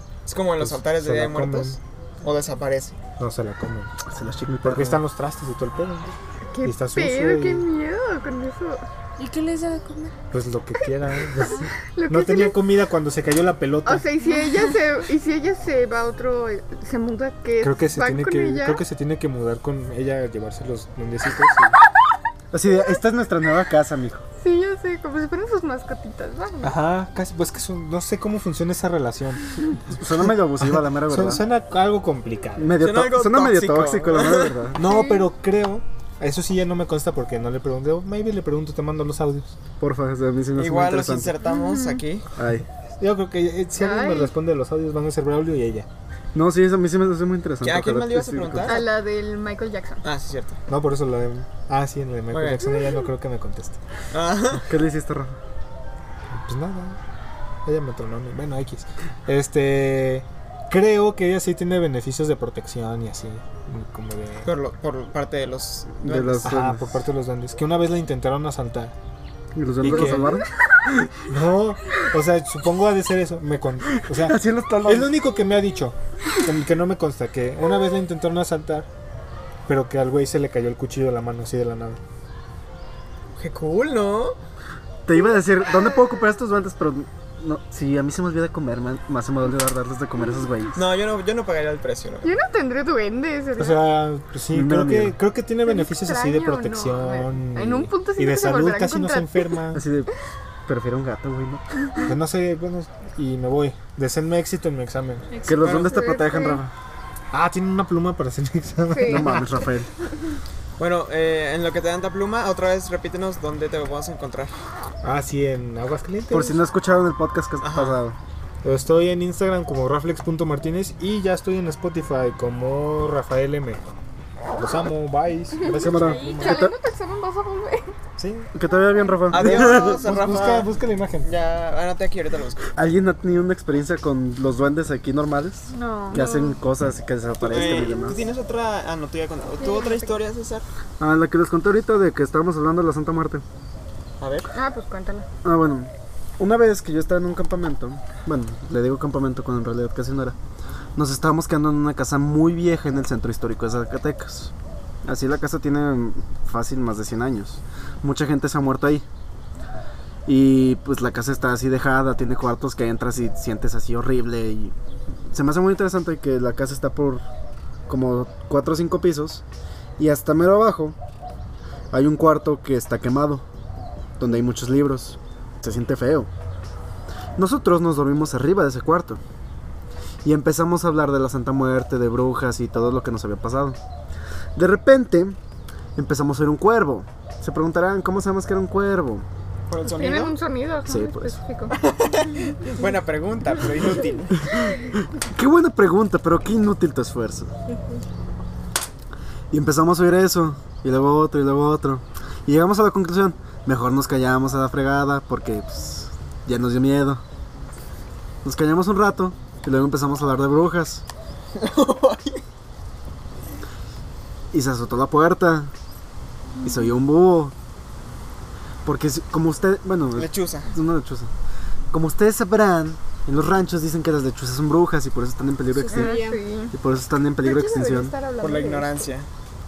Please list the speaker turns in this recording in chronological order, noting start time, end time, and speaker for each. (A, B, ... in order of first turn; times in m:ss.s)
0:00.2-0:03.0 A
0:00.6-0:01.8 B
0:03.2-0:03.9 B
0:04.1-0:05.0 C
0:04.6-0:07.6 B
0:06.5-0:08.8 D
0:09.2-0:10.1 E
0:10.3-0:14.1 B
0:11.9-0:12.6 D
0:13.8-0:18.8 D
0:17.6-0:21.7 B
0:22.5-0:24.2 C
0:24.4-0:26.8 D
0:26.6-0:29.7 B
0:29.9-0:31.4 C
0:31.0-0:32.8 B
0:32.6-0:34.8 C
0:32.8-0:34.6 A
0:34.8-0:39.6 B
0:34.8-0:35.3 D
0:39.8-0:41.3 C
0:40.6-0:42.3 A
0:41.5-0:42.0 D
0:42.4-0:42.7 C
0:43.0-0:45.9 B
0:43.7-0:44.3 D
0:46.3-0:48.8 C
0:47.6-0:48.9 A
0:48.6-0:50.0 D
0:50.0-0:50.6 A
0:50.7-0:53.8 B
0:52.3-0:52.7 A
0:54.1-0:54.7 A
0:54.6-0:55.4 C
0:56.3-0:57.0 B
0:57.6-1:04.5 B
1:04.4-1:06.5 A
1:06.0-1:07.0 C
1:06.4-1:08.9 B
1:09.5-1:11.1 C
1:09.8-1:10.4 B
1:11.3-1:18.9 B
1:14.1-1:15.1 C
1:19.7-1:22.0 B
1:23.4-1:24.4 A
1:25.0-1:30.8 C
1:30.7-1:32.3 A
1:32.2-1:34.0 D
1:33.6-1:39.8 B
1:34.5-1:35.2 C
1:35.6-1:39.6 D
1:39.7-1:40.1 C
1:40.6-1:41.6 C
1:42.0-1:45.4 B
1:45.3-1:45.8 E
1:45.4-1:46.7 C
1:45.5-1:46.0 A
1:45.6-1:46.6 D
1:47.3-1:49.6 B
1:48.9-1:49.4 D
1:49.0-1:49.9 C
1:50.8-1:54.5 A
1:55.0-1:56.6 B
1:56.3-1:58.2 C
1:57.6-1:58.0 A
1:58.6-2:03.8 B
2:04.6-2:06.6 B
2:05.7-2:06.7 C
2:05.9-2:06.7 E
2:06.4-2:07.9 D
2:08.2-2:08.5 B
2:08.5-2:10.0 C
2:08.7-2:09.3 D
2:09.3-2:10.7 A
2:09.4-2:11.3 B
2:11.2-2:12.7 A
2:12.8-2:18.2 C
2:15.7-2:16.6 D
2:17.4-2:20.6 A
2:19.6-2:20.1 D
2:21.0-2:23.4 C
2:24.2-2:24.5 A
2:24.5-2:25.2 D
2:25.4-2:30.4 C
2:31.0-2:34.5 C
2:35.0-2:39.0 C
2:40.2-2:44.7 C
2:45.3-2:47.2 C
2:47.9-2:49.4 C
2:50.0-2:51.0 C
2:51.9-2:53.4 C
2:54.2-2:56.3 C
2:57.4-2:59.2 C
3:00.2-3:03.8 C
3:04.6-3:05.4 C
3:06.0-3:09.2 C
3:09.7-3:10.4 A
3:09.8-3:11.7 D
3:10.8-3:11.4 C
3:11.7-3:14.6 A
3:14.4-3:17.5 C
3:17.7-3:18.0 E
3:19.5-3:27.2 C
3:28.4-3:31.0 C
3:31.6-3:32.4 A
3:34.5-3:35.7 C
3:36.6-3:36.9 D
3:36.6-3:37.5 C
3:38.8-3:41.3 C
3:40.2-3:40.7 A
3:41.9-3:46.2 C
3:45.7-3:46.4 E
3:45.9-3:46.7 D
3:46.7-3:48.1 C
3:47.4-3:49.1 D
3:48.4-3:49.3 A